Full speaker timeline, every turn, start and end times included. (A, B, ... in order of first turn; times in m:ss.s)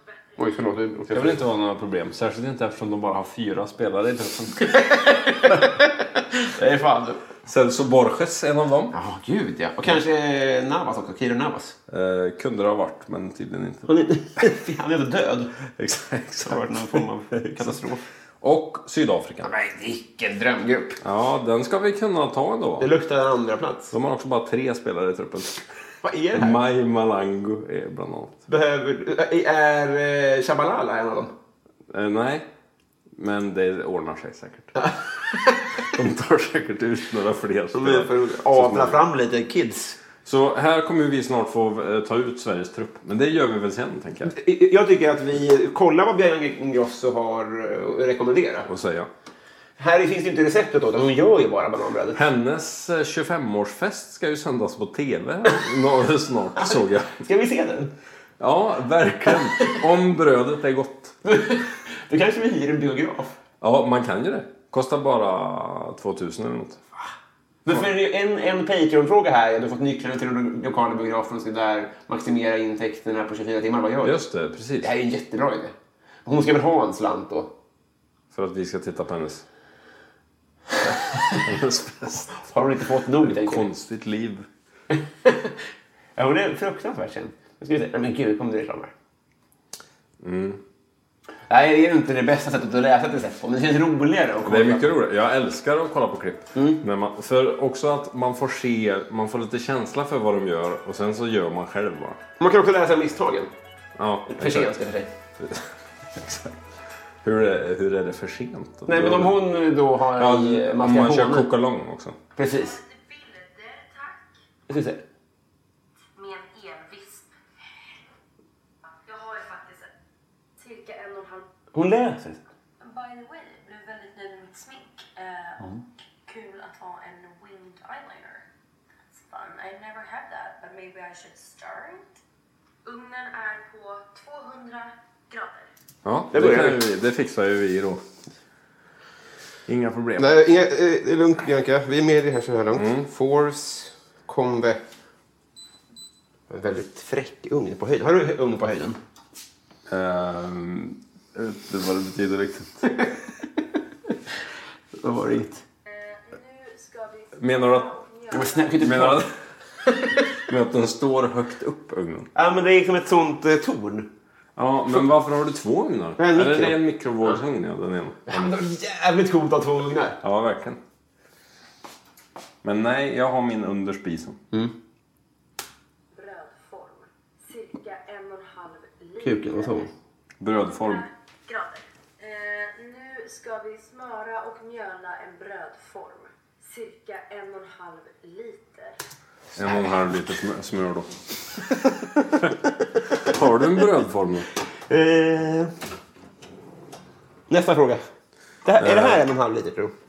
0:00.4-0:01.4 A
0:01.1-0:04.8 B
0:04.6-0:07.2 A
0:07.5-0:09.0 B
0:08.9-0:11.8 A
0:11.9-0:13.9 B
0:13.9-0:15.6 A
0:15.8-0:17.8 B
0:16.4-0:18.0 A
0:18.4-0:19.5 B
0:19.4-0:21.0 A
0:21.0-0:22.9 B
0:22.8-0:23.9 A
0:23.9-0:25.6 B
0:26.0-0:26.6 A
0:26.3-0:28.4 B
0:28.5-0:31.3 A
0:31.9-0:32.5 B
0:33.2-0:34.7 B
0:34.8-0:35.9 A
0:35.8-0:39.0 B
0:37.7-0:40.0 A
0:40.3-0:44.4 B
0:44.3-0:48.7 A
0:48.7-0:49.1 B
0:49.8-0:52.2 A
0:52.2-0:57.2 B
0:56.6-0:57.9 A
0:58.4-1:01.2 B
0:59.3-0:59.7 A
1:01.2-1:03.4 A
1:03.6-1:06.8 B
1:07.6-1:14.2 A
1:14.0-1:14.9 B
1:14.8-1:15.7 A
1:16.3-1:17.5 A
1:18.3-1:19.4 B
1:20.8-1:22.4 B
1:22.4-1:23.7 A
1:23.2-1:24.5 B
1:24.9-1:25.6 A
1:26.2-1:28.9 A
1:30.2-1:30.6 B
1:31.5-1:34.9 A
1:34.4-1:42.2 B
1:36.6-1:36.8 A
1:42.4-1:43.5 A
1:44.0-1:44.7 B
1:44.3-1:45.1 A
1:45.4-1:46.6 B
1:47.2-1:49.4 B
1:48.9-1:51.5 A
1:50.2-1:52.2 B
1:52.4-1:52.8 A
1:53.0-1:54.1 C
1:54.7-1:55.0 A
1:56.2-1:57.2 C
1:59.1-1:59.8 C
2:00.6-2:01.4 C
2:01.7-2:02.4 A
2:02.8-2:05.3 C
2:06.3-2:08.4 C
2:09.3-2:12.0 C
2:12.9-2:15.5 C
2:16.0-2:18.0 B
2:16.3-2:16.9 A
2:19.7-2:20.4 B
2:20.2-2:24.8 A
2:22.7-2:23.1 B
2:26.5-2:29.0 A
2:29.9-2:32.8 B
2:35.0-2:35.6 A
2:36.3-2:37.3 C
2:37.4-2:38.0 B
2:38.0-2:38.7 C
2:38.3-2:39.3 A
2:38.8-2:39.3 B
2:39.8-2:40.3 A
2:40.4-2:42.3 B
2:42.3-2:44.1 A
2:44.6-2:48.6 B
2:46.2-2:47.4 A
2:48.3-2:50.2 A
2:50.2-2:50.8 B
2:52.6-2:54.4 B
2:56.2-2:59.7 C
2:59.2-2:59.9 A
3:00.4-3:01.1 B
3:01.5-3:08.9 C
3:09.6-3:10.1 A
3:09.6-3:11.1 B
3:13.2-3:14.5 B
3:14.9-3:15.7 A
3:17.5-3:18.0 A
3:18.6-3:19.9 A
3:18.8-3:19.2 B